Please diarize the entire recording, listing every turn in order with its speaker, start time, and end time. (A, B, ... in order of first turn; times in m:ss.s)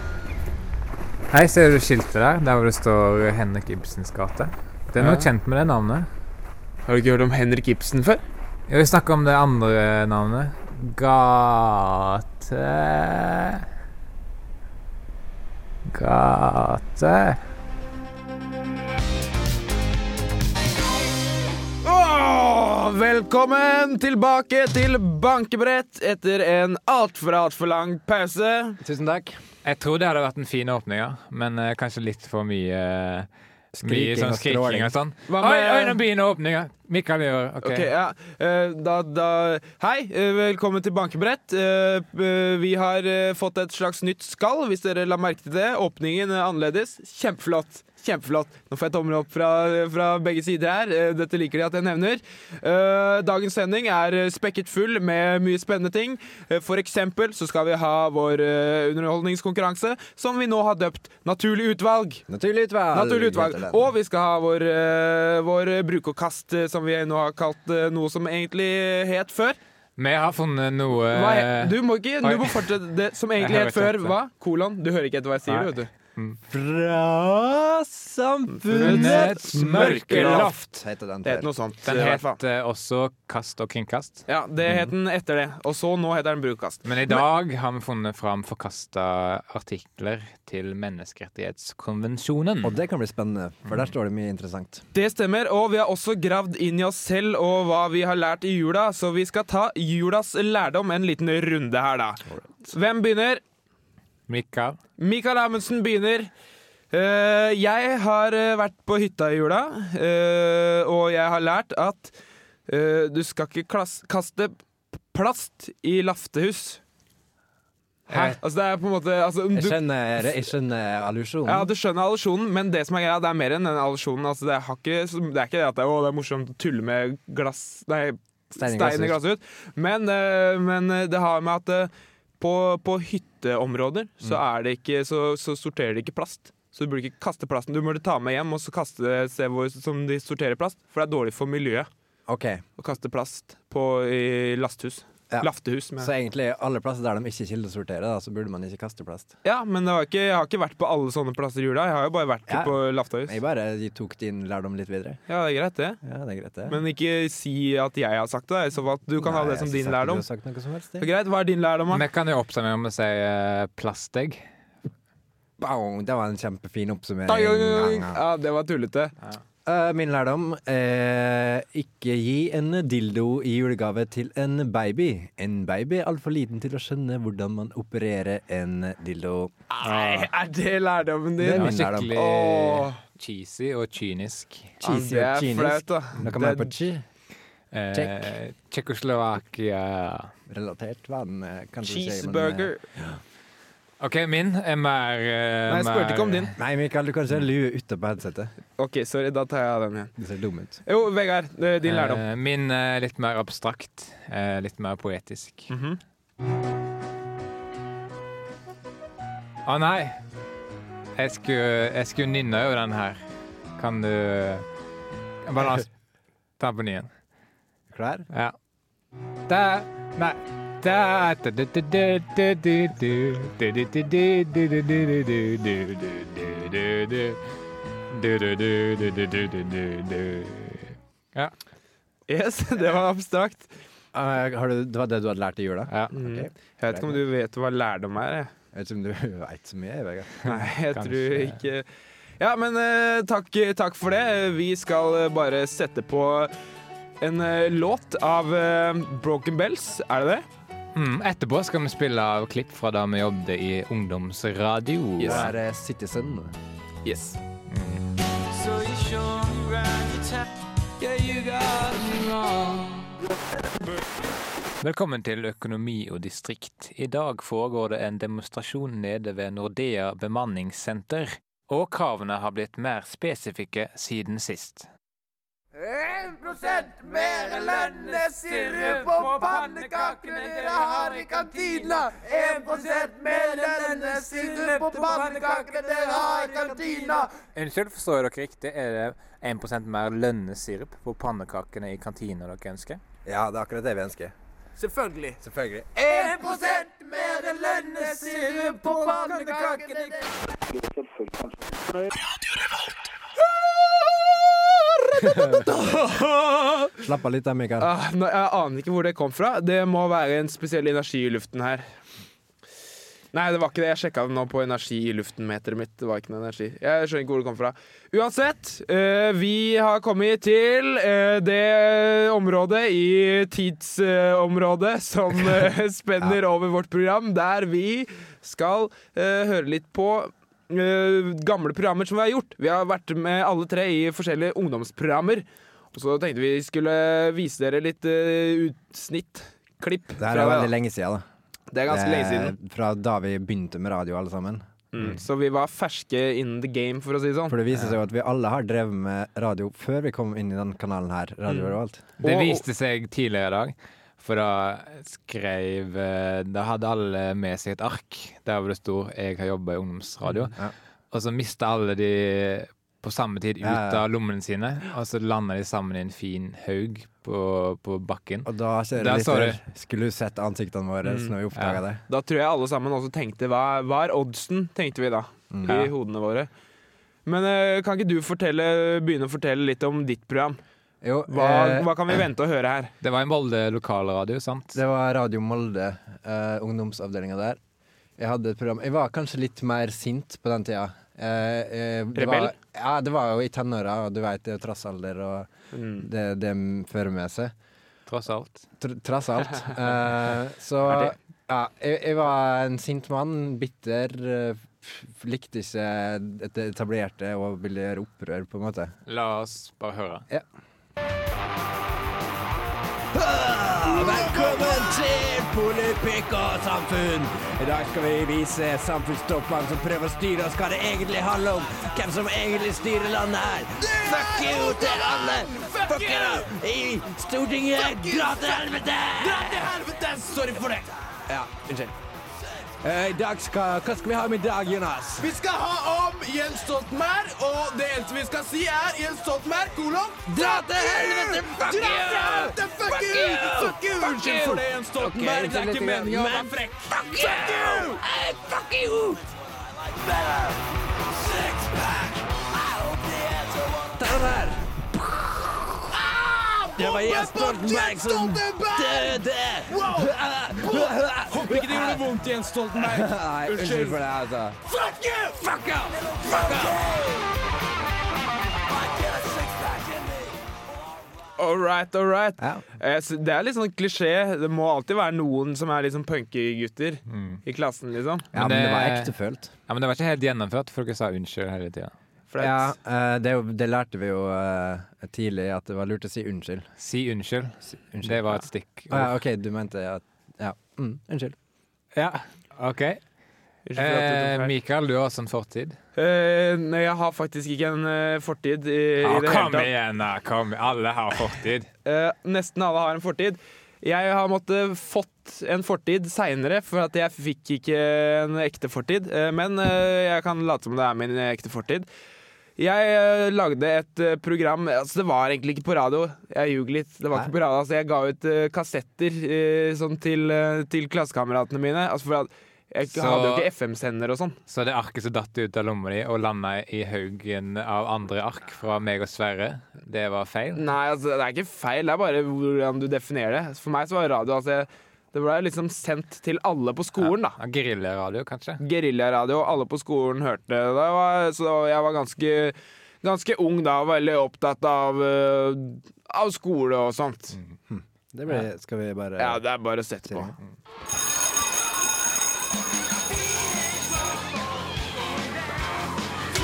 0:01.3-0:06.1 A
0:05.0-0:05.3 B
0:06.9-0:08.2 B
0:08.7-0:13.7 A
0:15.9-0:17.4 A
0:21.8-0:28.8 B
0:28.8-0:29.4 C
0:29.6-0:33.3 A
0:33.7-0:35.0 C
0:33.8-0:37.9 A
0:35.3-0:36.0 B
0:37.6-1:02.2 B
1:02.3-1:03.9 C
1:02.9-1:09.6 B
1:10.0-1:12.7 A
1:11.1-1:15.9 B
1:13.4-1:14.2 A
1:15.5-1:16.4 A
1:16.5-1:21.5 C
1:18.5-1:20.5 B
1:18.7-1:20.6 A
1:21.2-1:22.4 B
1:21.8-1:24.3 A
1:24.3-1:27.2 B
1:26.8-1:32.8 A
1:32.6-1:34.8 C
1:34.9-1:43.4 B
1:44.3-1:44.8 A
1:45.0-1:46.3 B
1:46.9-1:52.2 B
1:52.7-1:56.8 B
1:58.1-1:59.8 B
1:58.1-1:58.4 A
1:59.5-2:01.7 C
2:01.5-2:21.9 B
2:08.6-2:09.2 C
2:22.3-2:22.6 C
2:22.8-2:26.1 B
2:25.3-2:29.3 C
2:29.4-2:33.4 B
2:32.5-2:35.2 C
2:35.3-2:36.0 B
2:36.0-2:36.8 C
2:36.7-2:40.2 B
2:39.2-2:41.1 C
2:41.0-2:42.0 B
2:41.9-2:44.4 A
2:45.6-2:48.2 C
2:47.3-2:49.1 B
2:49.6-2:59.5 C
2:59.7-3:03.0 B
2:59.8-3:00.3 A
3:01.4-3:02.2 C
3:01.6-3:04.7 A
3:04.8-3:07.0 C
3:04.8-3:06.7 B
3:07.7-3:10.3 A
3:07.9-3:08.3 C
3:10.5-3:13.2 C
3:11.8-3:12.8 B
3:14.0-3:16.6 A
3:15.7-3:16.5 B
3:16.6-3:18.5 C
3:18.8-3:20.1 B
3:20.2-3:20.8 C
3:20.8-3:22.2 B
3:21.8-3:25.7 A
3:25.7-3:26.0 B
3:29.6-3:30.2 A
3:31.2-3:33.2 A
3:33.8-3:34.6 A
3:35.4-3:35.9 A
3:36.6-3:37.1 A
3:37.9-3:38.3 C
3:39.5-3:47.4 A
3:48.1-3:51.5 A
3:52.3-3:53.7 B
3:54.1-3:57.2 C
3:56.1-3:58.5 B
3:58.7-4:00.6 C
4:00.4-4:01.9 B
4:00.9-4:01.6 A
4:02.4-4:06.5 B
4:07.2-4:10.4 B
4:11.0-4:15.5 A
4:15.2-4:15.5 B
4:15.2-4:16.6 C
4:17.0-4:17.4 B
4:17.7-4:18.1 A
4:18.5-4:20.2 D
4:21.9-4:22.4 D
4:24.8-4:34.9 A
4:36.0-4:47.3 D
4:39.9-4:41.9 A
4:47.4-4:53.0 A
4:53.2-4:54.3 C
4:54.8-4:55.4 B
4:55.4-4:55.9 C
4:56.0-5:00.3 D
4:56.1-4:56.4 B
5:05.2-5:05.8 C
5:05.4-5:06.9 B
5:07.0-5:07.9 C
5:07.8-5:11.8 B
5:13.3-5:40.7 B
5:40.2-5:41.2 C
5:41.7-5:42.6 B
5:41.9-5:45.2 C
5:44.9-5:47.6 B
5:47.5-5:52.0 C
5:52.2-6:00.6 A
5:52.2-5:52.6 B
6:01.1-6:09.6 A
6:03.6-6:04.0 C
6:08.4-6:12.0 C
6:11.0-6:11.3 B
6:11.5-6:11.8 A
6:12.1-6:16.5 B
6:15.5-6:15.8 C
6:17.3-6:20.6 B
6:21.0-6:22.2 C
6:21.3-6:22.9 B
6:23.0-6:24.8 A
6:24.7-6:27.6 C
6:28.2-6:37.5 C
6:32.2-6:32.5 B
6:35.7-6:36.1 B
6:38.1-6:38.7 A
6:38.8-6:48.9 C
6:49.1-6:50.3 A
6:53.1-7:09.7 C
7:03.8-7:06.5 D
7:07.8-7:10.9 D
7:11.3-7:11.7 C
7:11.3-7:11.9 B
7:12.8-7:15.4 C
7:15.2-7:27.9 D
7:20.2-7:29.2 C
7:26.0-7:26.5 B
7:27.2-7:28.0 B
7:31.7-7:32.1 C
7:33.9-7:42.1 C
7:36.7-7:44.0 D
7:42.7-7:44.6 C
7:44.7-7:45.4 D
7:45.3-7:47.0 C
7:46.2-7:46.8 D
7:51.4-7:58.3 B
7:52.4-7:52.6 C
7:57.1-7:57.4 A
7:58.3-7:59.1 A
7:58.3-7:59.5 C
7:59.7-8:01.9 A
8:02.3-8:02.8 B
8:02.4-8:06.7 C
8:06.8-8:09.1 A
8:07.9-8:11.4 C
8:12.0-8:13.0 A
8:13.7-8:14.5 B
8:13.8-8:15.8 A
8:16.0-8:19.7 B
8:19.0-8:21.7 A
8:21.8-8:31.9 B
8:32.6-8:44.4 B
8:42.9-8:43.5 A
8:44.5-8:50.6 A
8:50.6-8:57.4 B
8:57.0-8:58.6 A
8:58.6-9:07.4 B
9:07.7-9:09.4 C
9:09.2-9:10.3 B
9:10.1-9:10.4 C